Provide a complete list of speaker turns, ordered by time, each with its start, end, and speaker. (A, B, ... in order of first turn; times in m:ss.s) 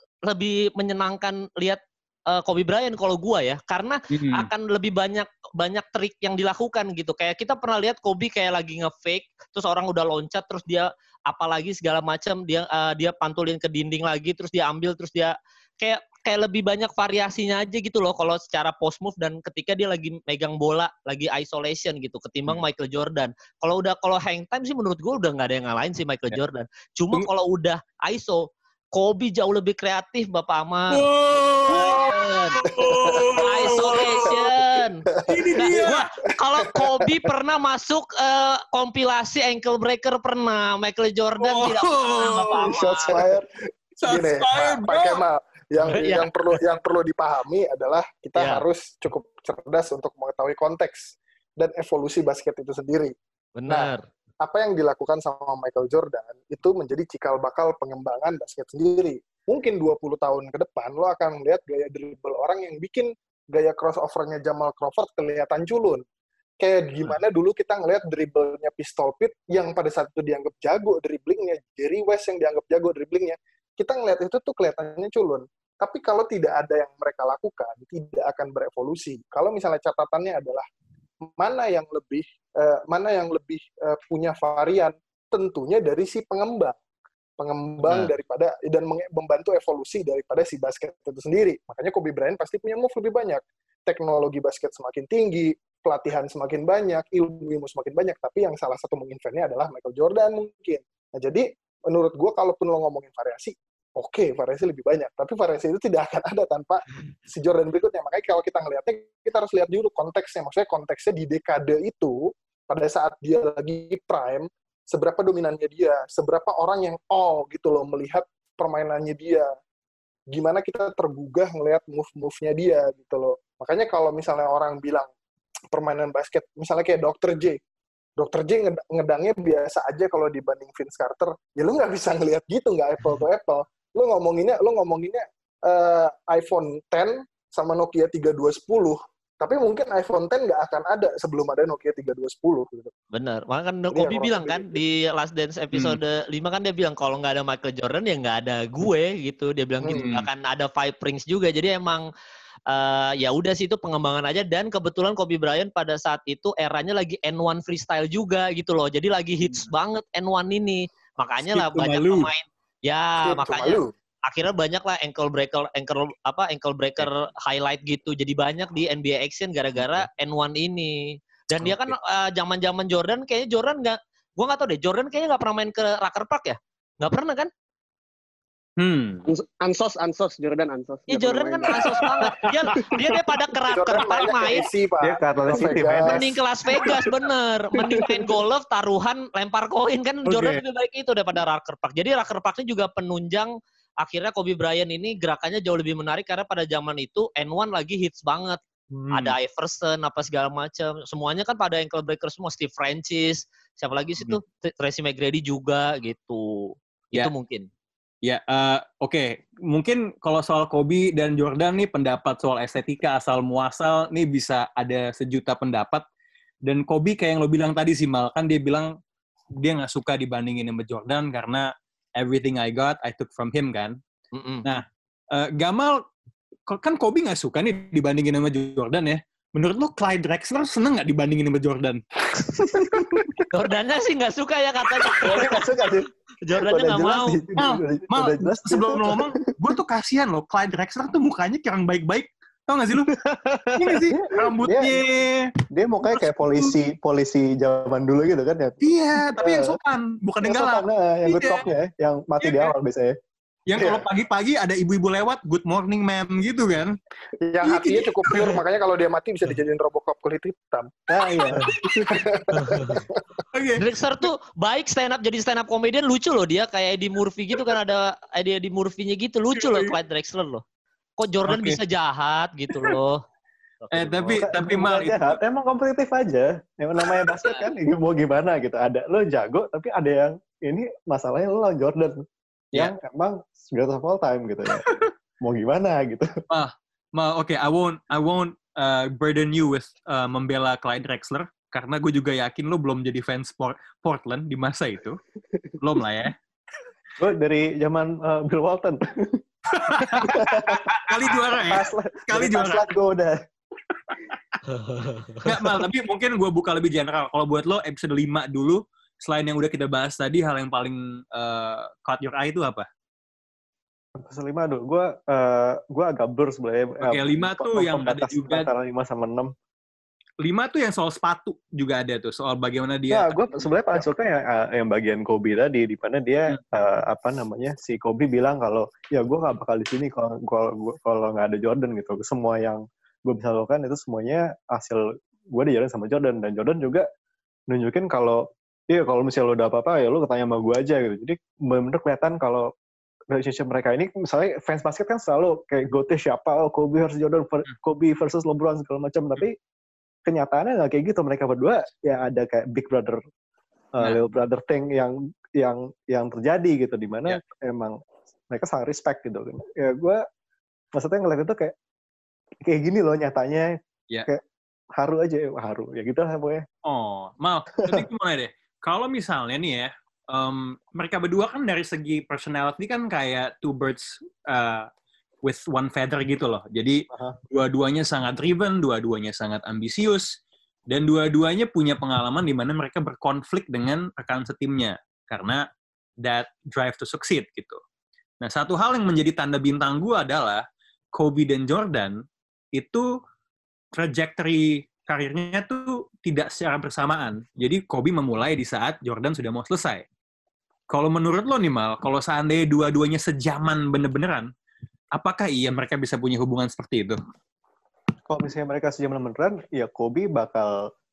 0:00.3-0:32.6 A
0:04.1-0:04.5 B
0:30.9-0:34.4 B
0:31.7-0:33.7 C
0:33.4-0:35.0 A
0:34.2-0:36.0 C
0:35.3-0:36.1 B
0:35.6-0:43.2 A
0:36.6-0:37.1 C
0:41.4-0:42.8 B
0:42.6-0:43.5 C
0:44.0-0:45.2 B
0:44.0-0:53.1 C
0:45.9-0:46.2 A
0:48.4-0:48.6 A
0:53.6-0:54.0 A
0:53.7-1:06.0 C
1:06.6-1:20.6 C
1:21.4-1:26.8 C
1:27.4-1:59.5 C
2:00.3-2:05.1 C
2:05.7-2:07.6 C
2:08.2-2:22.9 C
2:23.1-2:32.1 A
2:23.9-2:24.8 C
2:29.8-2:30.0 C
2:29.9-2:30.2 B
2:32.7-2:57.5 A
2:41.4-2:42.3 B
2:43.2-2:43.9 C
2:49.8-2:50.1 B
2:51.6-2:51.9 B
2:58.8-2:59.3 B
2:59.3-3:02.0 D
3:01.1-3:04.7 A
3:02.4-3:02.8 B
3:03.7-3:06.3 C
3:05.0-3:06.4 E
3:06.0-3:18.6 A
3:10.3-3:10.6 B
3:18.9-3:19.4 B
3:19.1-3:27.7 A
3:28.2-3:36.0 B
3:36.6-3:38.9 B
3:39.6-3:44.0 B
3:44.3-3:44.6 A
3:44.6-3:46.0 B
3:46.7-3:52.0 B
3:52.4-3:53.2 E
3:53.5-3:55.6 A
3:55.2-3:56.1 E
3:56.4-3:57.4 A
3:56.6-3:59.5 E
3:57.6-4:03.1 B
4:03.1-4:03.9 D
4:03.7-4:05.5 B
4:04.1-4:05.0 E
4:05.7-4:09.8 E
4:06.0-4:06.7 B
4:08.8-4:11.7 B
4:10.4-4:13.2 E
4:12.4-4:12.7 B
4:13.7-4:17.0 B
4:13.8-4:14.0 C
4:17.4-4:23.2 C
4:17.6-4:18.6 B
4:21.1-4:21.7 E
4:21.6-4:22.2 B
4:22.6-4:23.0 A
4:23.5-4:23.8 B
4:23.8-4:30.6 A
4:29.6-4:29.9 B
4:31.2-4:33.2 A
4:31.4-4:31.8 B
4:33.8-4:34.5 A
4:33.9-4:35.4 B
4:34.3-4:42.2 E
4:37.1-4:37.6 B
4:42.7-4:46.4 E
4:46.5-4:55.2 B
4:55.8-4:56.3 B
4:57.2-4:59.4 E
4:59.7-5:02.9 B
4:59.9-5:03.4 E
5:04.7-5:05.4 A
5:05.4-5:12.8 B
5:14.2-5:19.5 E
5:17.0-5:18.7 B
5:20.4-5:24.0 B
5:23.1-5:37.0 E
5:37.7-5:42.7 E
5:43.3-5:49.5 E
5:50.2-5:53.2 E
5:53.9-5:58.0 E
5:58.5-6:00.2 E
6:00.9-6:01.7 E
6:02.6-6:03.7 E
6:05.0-6:06.6 E
6:06.8-6:14.9 B
6:15.4-6:20.3 B
6:17.1-6:17.4 E
6:20.9-6:25.6 B
6:26.2-6:27.8 B
6:28.4-6:32.2 B
6:32.7-6:33.1 B
6:33.9-6:40.0 B
6:40.9-6:44.5 B
6:45.1-6:47.2 B
6:48.3-6:50.9 E